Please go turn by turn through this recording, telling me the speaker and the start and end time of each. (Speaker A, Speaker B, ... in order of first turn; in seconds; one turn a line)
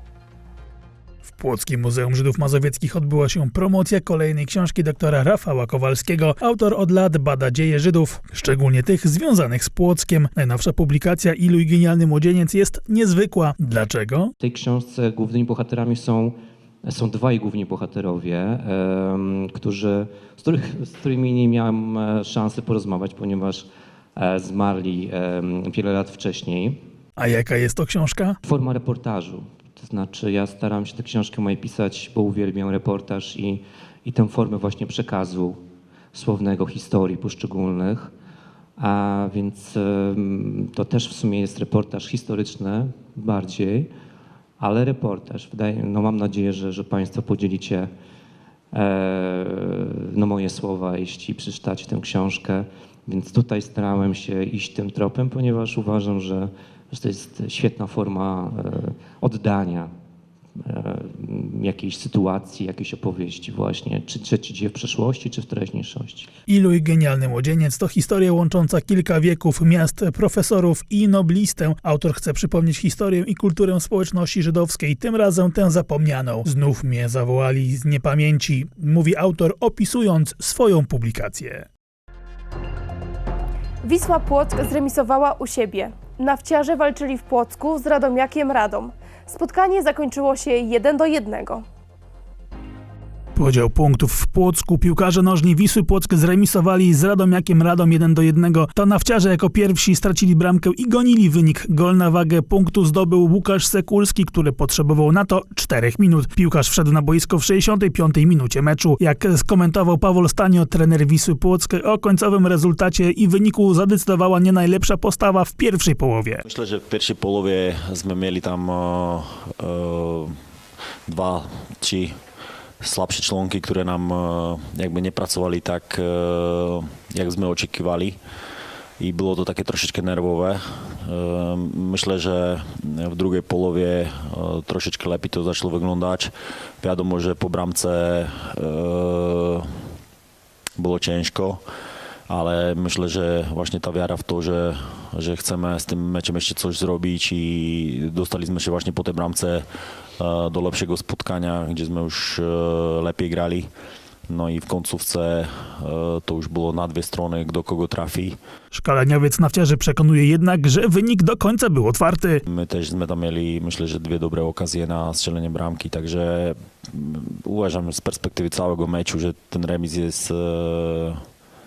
Speaker A: 1.4-14.3
Speaker B: 14.4-26.8
Speaker A: 27.2-28.3
Speaker B: 28.4-35.6
Speaker B: 36.1-38.1
Speaker B: 38.8-43.9
Speaker B: 44.6-47.9
Speaker B: 48.7-59.9
Speaker B: 60.6-66.3
Speaker A: 66.5-81.6
Speaker C: 83.8-91.7
Speaker A: 93.4-116.4
Speaker D: 116.5-120.3
Speaker D: 121.1-122.1
Speaker D: 122.8-128.2
Speaker D: 129.0-139.9
Speaker D: 140.8-141.6
Speaker D: 142.3-149.7
Speaker D: 150.2-153.7
Speaker D: 154.3-158.4
Speaker A: 158.8-162.4
Speaker D: 162.5-171.2